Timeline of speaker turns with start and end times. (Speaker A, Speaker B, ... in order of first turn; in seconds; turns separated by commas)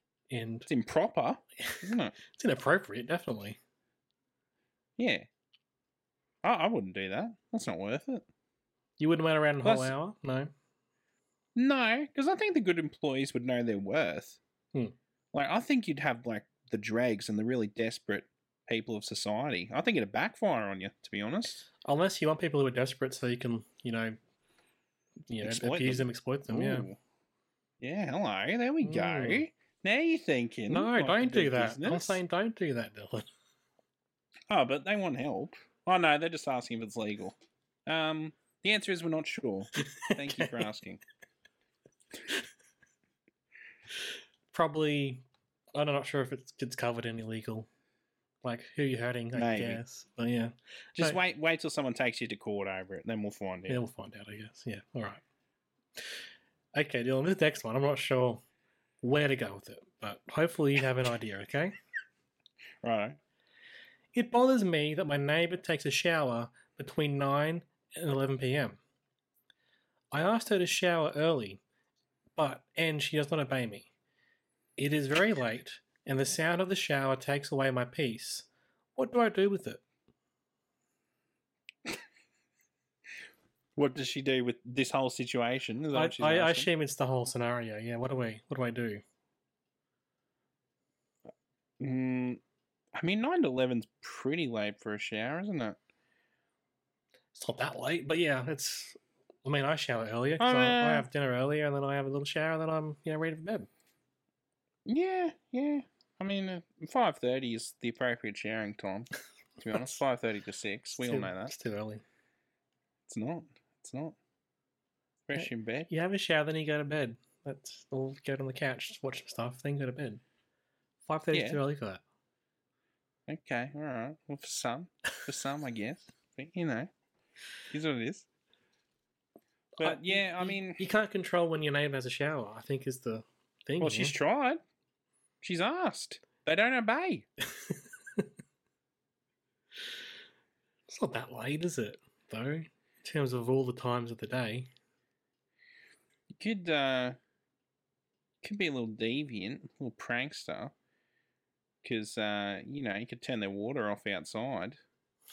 Speaker A: 0.3-0.7, Speaker B: 0.7-2.1, Speaker A: 2.3-3.6, Speaker B: 5.0-5.3, Speaker B: 6.4-8.2, Speaker A: 9.0-10.5, Speaker B: 9.6-9.9, Speaker B: 11.5-14.4, Speaker B: 15.3-21.6, Speaker A: 21.8-24.2, Speaker A: 25.3-26.9, Speaker B: 25.4-27.0, Speaker B: 27.8-32.2, Speaker A: 28.8-29.4, Speaker A: 30.7-33.3, Speaker B: 34.5-37.3, Speaker B: 37.9-41.0, Speaker A: 39.9-40.5, Speaker A: 44.5-45.2, Speaker A: 45.7-47.7, Speaker A: 48.4-51.2, Speaker B: 49.3-49.8, Speaker B: 51.0-53.8, Speaker A: 53.7-55.2, Speaker A: 56.7-58.4, Speaker A: 59.0-61.7, Speaker B: 62.8-63.2, Speaker A: 64.1-68.8, Speaker A: 70.1-71.6, Speaker A: 72.3-73.9, Speaker A: 74.8-79.8, Speaker B: 83.8-86.7, Speaker A: 85.9-89.0, Speaker B: 91.8-92.4, Speaker B: 92.9-95.8, Speaker A: 97.3-103.7, Speaker B: 100.4-101.0, Speaker B: 104.8-109.1, Speaker B: 109.6-111.5, Speaker A: 111.0-112.0, Speaker B: 113.1-114.2, Speaker B: 115.3-115.9, Speaker A: 115.3-120.2, Speaker A: 121.0-122.0, Speaker B: 121.3-121.6, Speaker B: 123.3-126.9, Speaker B: 127.7-128.2, Speaker B: 129.8-130.8, Speaker A: 129.8-134.1, Speaker B: 133.8-134.6, Speaker B: 135.4-137.2, Speaker A: 137.6-138.3, Speaker A: 140.9-144.7, Speaker B: 146.4-147.2, Speaker B: 148.4-150.7, Speaker B: 151.8-154.8